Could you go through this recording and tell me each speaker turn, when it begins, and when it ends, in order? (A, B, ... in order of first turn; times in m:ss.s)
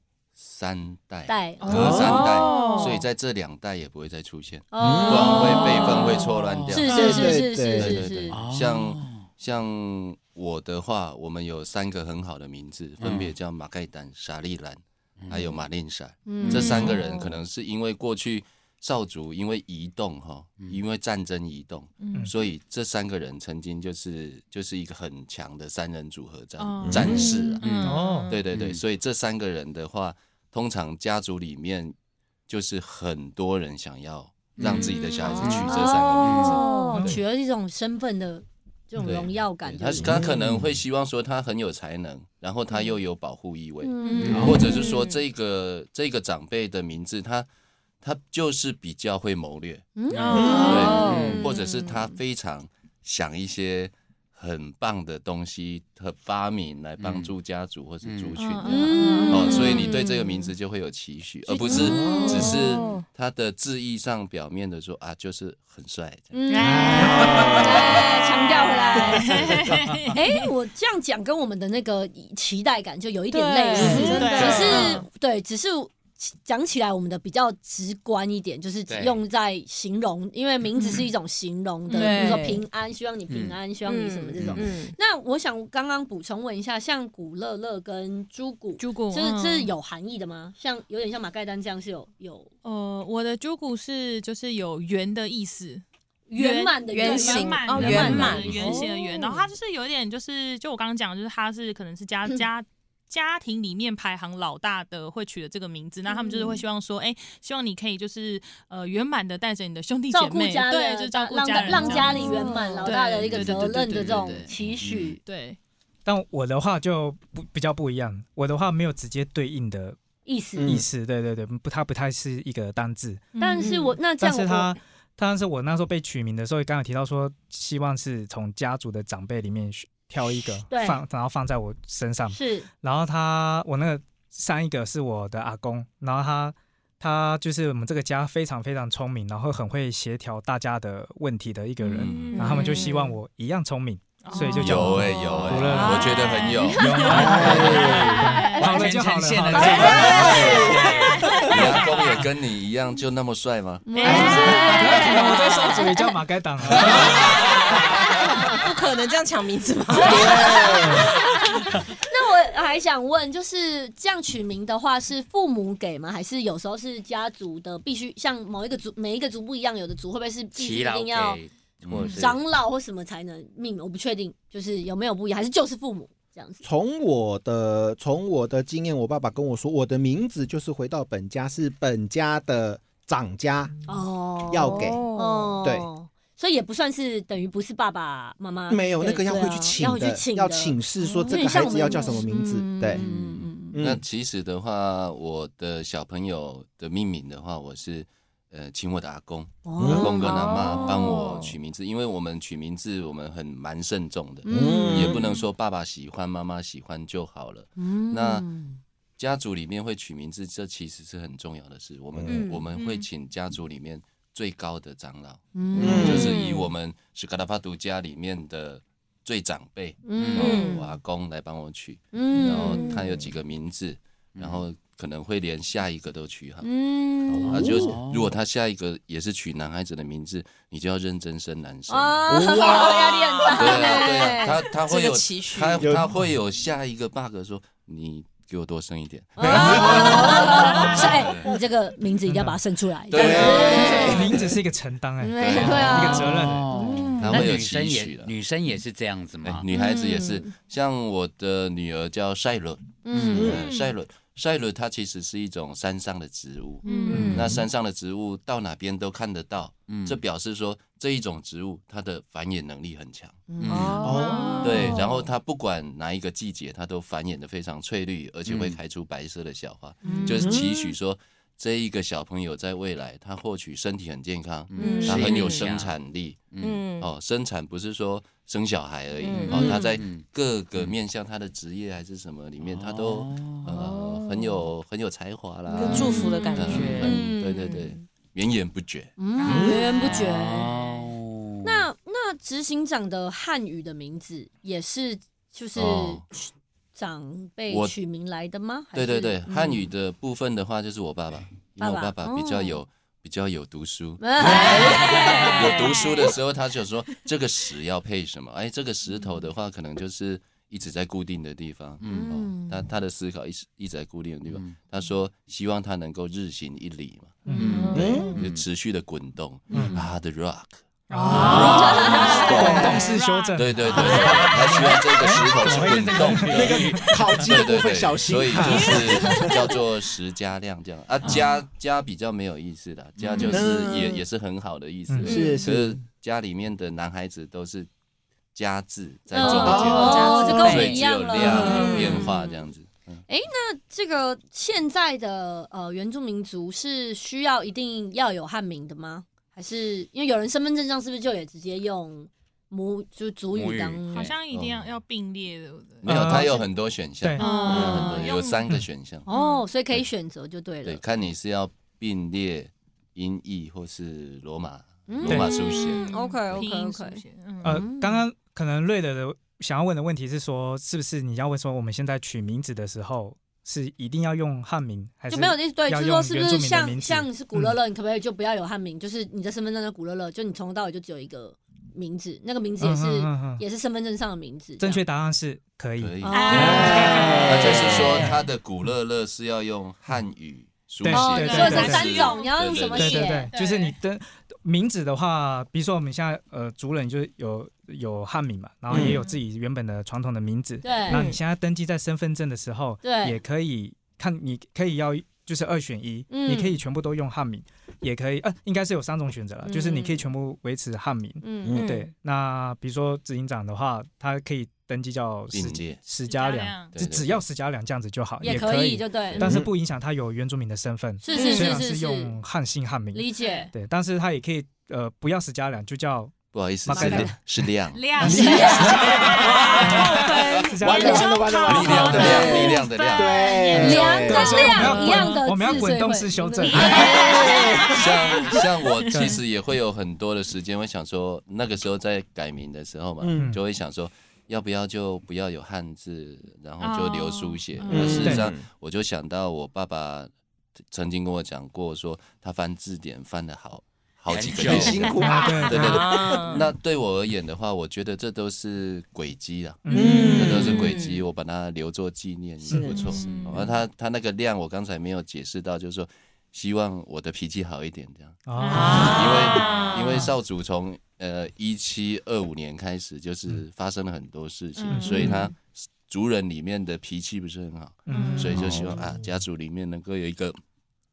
0:00.4-0:27.7 A
0:01.3-0:02.7 B
0:01.6-0:03.0 C
0:01.7-0:02.2 D
0:02.2-0:02.9 E
0:04.7-0:08.4 B
0:04.8-0:05.7 D
0:05.5-0:06.9 F
0:06.9-0:07.3 C
0:06.9-0:08.1 D
0:08.3-0:09.2 F
0:13.0-0:13.3 F
0:15.2-0:15.6 F
0:16.3-0:16.9 B
0:16.4-0:17.0 F
0:16.5-0:17.1 C
0:22.0-0:22.3 C
0:26.6-0:28.4 C
0:26.8-0:27.3 D
0:27.1-0:28.8 F
0:27.8-0:28.3 G
0:28.3-0:31.9 A
0:32.5-0:36.6 A
0:34.6-0:36.6 F
0:34.7-0:36.2 C
0:35.3-0:40.1 B
0:36.5-0:37.1 E
0:39.0-0:47.5 A
0:40.0-0:40.4 D
0:40.1-0:40.6 F
0:43.8-0:45.1 B
0:44.0-0:44.9 C
0:44.2-0:44.7 F
0:44.3-0:44.7 D
0:48.0-0:50.0 A
0:50.0-0:52.1 B
0:50.1-0:51.5 F
0:50.1-0:51.1 C
0:50.3-0:50.8 D
0:50.4-0:51.4 E
0:50.5-1:06.3 A
0:57.0-0:57.3 F
0:58.0-0:58.5 F
0:58.4-0:59.9 C
0:58.6-1:00.5 B
1:01.5-1:02.5 D
1:01.5-1:02.9 B
1:01.7-1:02.5 F
1:06.3-1:09.5 B
1:06.5-1:10.5 C
1:06.6-1:08.0 D
1:09.1-1:10.0 D
1:10.1-1:32.5 B
1:13.3-1:14.9 E
1:13.8-1:14.4 D
1:13.8-1:14.9 F
1:14.0-1:15.0 C
1:18.9-1:19.2 F
1:20.8-1:21.0 C
1:21.9-1:22.4 C
1:21.9-1:22.6 E
1:23.3-1:23.6 F
1:23.8-1:24.9 E
1:24.4-1:24.6 F
1:28.8-1:29.7 C
1:32.6-1:35.8 C
1:36.3-1:39.4 B
1:36.3-1:54.5 C
1:36.9-1:39.3 E
1:37.9-1:38.3 A
1:46.1-1:46.6 B
1:50.1-1:55.2 B
1:51.7-1:52.9 E
1:54.6-1:55.1 A
1:54.8-1:55.1 F
1:55.2-1:55.6 C
1:56.0-2:00.0 G
2:00.2-2:00.7 B
2:00.6-2:00.9 D
2:00.6-2:03.2 G
2:03.3-2:03.9 C
2:03.4-2:04.8 B
2:03.6-2:03.8 E
2:04.1-2:26.2 G
2:10.7-2:11.0 B
2:12.3-2:12.7 B
2:21.8-2:22.9 C
2:22.0-2:22.4 A
2:22.3-2:23.1 E
2:24.2-2:28.9 C
2:24.6-2:28.1 A
2:25.7-2:26.6 E
2:26.6-2:27.8 B
2:26.7-2:30.4 G
2:27.1-2:28.2 D
2:28.0-2:31.8 F
2:29.6-2:32.2 C
2:29.7-2:31.5 D
2:30.1-2:30.7 A
2:31.4-2:34.3 A
2:33.8-2:36.2 B
2:34.0-2:35.5 C
2:34.0-2:34.5 D
2:34.1-2:35.9 E
2:34.1-2:37.3 G
2:36.7-2:37.3 A
2:36.8-2:40.8 E
2:39.9-2:51.4 B
2:40.0-2:41.1 D
2:50.5-2:52.4 F
2:52.0-2:52.3 C
2:52.0-2:56.6 B
2:56.6-3:03.7 D
3:03.9-3:13.8 B
3:04.5-3:05.0 D
3:04.6-3:05.5 E
3:08.7-3:13.0 D
3:13.0-3:13.7 F
3:13.7-3:14.0 D
3:13.8-3:28.5 A
3:19.6-3:21.5 B
3:19.8-3:20.4 D
3:24.4-3:25.2 B
3:24.5-3:25.3 D
3:27.8-3:28.8 B
3:29.2-3:46.7 A
3:32.1-3:32.4 D
3:32.3-3:32.6 E
3:32.7-3:33.0 C
3:35.5-3:36.3 B
3:35.8-3:36.3 D
3:36.1-3:36.7 E
3:40.0-3:40.9 B
3:40.2-3:40.6 F
3:40.4-3:40.8 E
3:42.1-3:43.0 B
3:42.5-3:43.0 E
3:44.3-3:44.6 F
3:46.6-3:47.6 B
3:47.3-3:47.9 D
3:47.5-3:52.3 A
3:47.5-3:48.4 F
3:51.9-3:54.6 B
3:52.3-3:53.3 D
3:53.4-3:56.0 E
3:53.5-4:01.5 A
3:55.8-3:56.1 D
3:59.4-4:04.3 B
3:59.4-4:01.2 D
4:02.3-4:02.6 G
4:03.1-4:04.3 A
4:03.1-4:04.5 D
4:04.0-4:06.6 G
4:05.2-4:06.4 B
4:05.4-4:06.2 A
4:05.6-4:09.7 F
4:06.8-4:07.1 E
4:06.9-4:07.2 B
4:07.2-4:08.3 A
4:09.4-4:24.0 A
4:09.7-4:10.5 B
4:13.0-4:13.5 B
4:13.1-4:13.6 F
4:13.3-4:13.6 D
4:13.5-4:13.9 C
4:16.8-4:17.4 B
4:16.8-4:17.3 C
4:16.9-4:17.5 E
4:17.2-4:17.6 F
4:19.9-4:20.2 F
4:23.5-4:24.7 B
4:23.6-4:24.2 F
4:23.7-4:25.1 E
4:24.0-4:24.5 D
4:24.1-4:24.8 C
4:24.6-4:49.1 A
4:24.7-4:25.0 F
4:28.5-4:28.8 F
4:30.0-4:30.7 B
4:30.4-4:30.7 D
4:34.7-4:35.9 F
4:34.8-4:35.7 E
4:34.8-4:35.2 B
4:36.5-4:36.8 F
4:36.6-4:37.1 E
4:39.2-4:39.6 E
4:39.3-4:40.9 F
4:39.5-4:39.8 D
4:42.6-4:43.9 F
4:43.8-4:44.3 E
4:45.7-4:48.0 E
4:45.9-4:47.2 F
4:46.0-4:46.6 B
4:49.2-4:50.7 B
4:49.4-4:51.1 C
4:49.4-4:49.8 D
4:50.0-4:51.8 F
4:51.6-4:59.8 B
4:55.7-4:56.2 A
4:57.7-4:58.0 A
4:58.9-5:37.9 A
5:01.8-5:02.8 B
5:04.2-5:06.3 B
5:04.4-5:05.5 F
5:05.6-5:06.3 C
5:12.0-5:12.4 F
5:12.0-5:12.9 B
5:14.5-5:14.8 F
5:17.4-5:17.8 G
5:17.6-5:18.6 F
5:17.6-5:18.3 E
5:17.9-5:18.4 D
5:19.7-5:20.0 G
5:19.7-5:20.1 F
5:21.1-5:27.4 G
5:21.3-5:21.6 F
5:21.3-5:22.4 E
5:21.3-5:25.0 C
5:21.5-5:23.0 B
5:22.5-5:22.9 D
5:23.8-5:25.0 F
5:25.7-5:27.1 F
5:26.5-5:29.7 D
5:28.6-5:29.6 C
5:31.2-5:31.5 F
5:33.2-5:33.5 F
5:33.5-5:34.2 D
5:35.1-5:35.4 G
5:35.2-5:36.0 D
5:35.2-5:35.6 E
5:38.5-5:43.2 A
5:39.3-5:42.3 B
5:39.4-5:40.7 D
5:39.4-5:42.3 E
5:41.4-5:42.2 D
5:43.3-5:54.3 B
5:53.5-5:54.3 F
5:54.1-5:56.6 C
5:54.5-5:54.9 A
5:56.0-5:59.3 A
5:56.0-5:56.6 G
5:57.2-5:57.7 G
5:57.4-5:58.6 C
5:57.5-5:58.3 B
5:59.3-5:59.6 C
5:59.3-6:01.0 B
6:00.8-6:06.6 A
6:05.1-6:08.2 B
6:05.2-6:05.5 G
6:05.4-6:07.8 C
6:07.6-6:17.8 G
6:15.3-6:25.0 B
6:22.8-6:23.6 G
6:24.8-6:28.4 G
6:26.0-6:33.4 A
6:26.2-6:27.4 B
6:26.3-6:27.5 C
6:26.5-6:28.2 D
6:31.0-6:32.1 G
6:31.1-6:33.5 B
6:31.3-6:34.0 C
6:33.0-7:07.4 G
6:38.9-6:39.2 D
6:38.9-6:39.4 C
6:40.8-6:41.3 B
6:41.1-6:41.4 E
6:43.0-6:43.4 B
6:46.3-6:46.8 B
6:49.6-6:50.2 B
6:51.4-6:51.8 B
6:51.7-6:52.1 E
6:55.5-6:56.0 A
6:56.2-6:56.9 C
6:56.9-6:57.4 A
6:58.4-6:59.5 B
6:59.4-6:59.7 D
7:01.2-7:02.4 B
7:01.3-7:01.8 E
7:01.3-7:01.6 C
7:03.1-7:03.7 B
7:03.4-7:03.7 C
7:06.5-7:09.4 A
7:06.9-7:07.3 B
7:07.9-7:15.8 C
7:08.2-7:11.5 G
7:08.2-7:09.6 B
7:08.9-7:10.0 D
7:10.2-7:12.7 B
7:10.8-7:14.9 D
7:11.6-7:13.4 A
7:12.0-7:12.4 G
7:13.8-7:17.9 B
7:14.2-7:17.0 G
7:16.6-7:19.4 C
7:16.8-7:18.1 D
7:17.9-7:30.3 A
7:19.1-7:19.4 G
7:26.8-7:28.3 C
7:27.9-7:28.6 D
7:28.0-7:28.5 G
7:30.9-8:00.6 A
7:34.3-7:35.3 F
7:34.6-7:36.3 D
7:35.0-7:36.7 E
7:35.2-7:36.2 G
7:39.8-7:40.8 G
7:39.9-7:40.8 D
7:40.2-7:41.2 E
7:42.6-7:42.9 G
7:42.7-7:43.4 E
7:43.0-7:43.7 C
7:48.4-7:49.2 G
7:48.6-7:50.0 C
7:48.7-7:50.2 E
7:54.8-7:55.4 C
7:54.9-7:55.4 G
7:58.1-7:58.8 G
7:58.1-7:58.5 C
7:58.6-7:58.9 F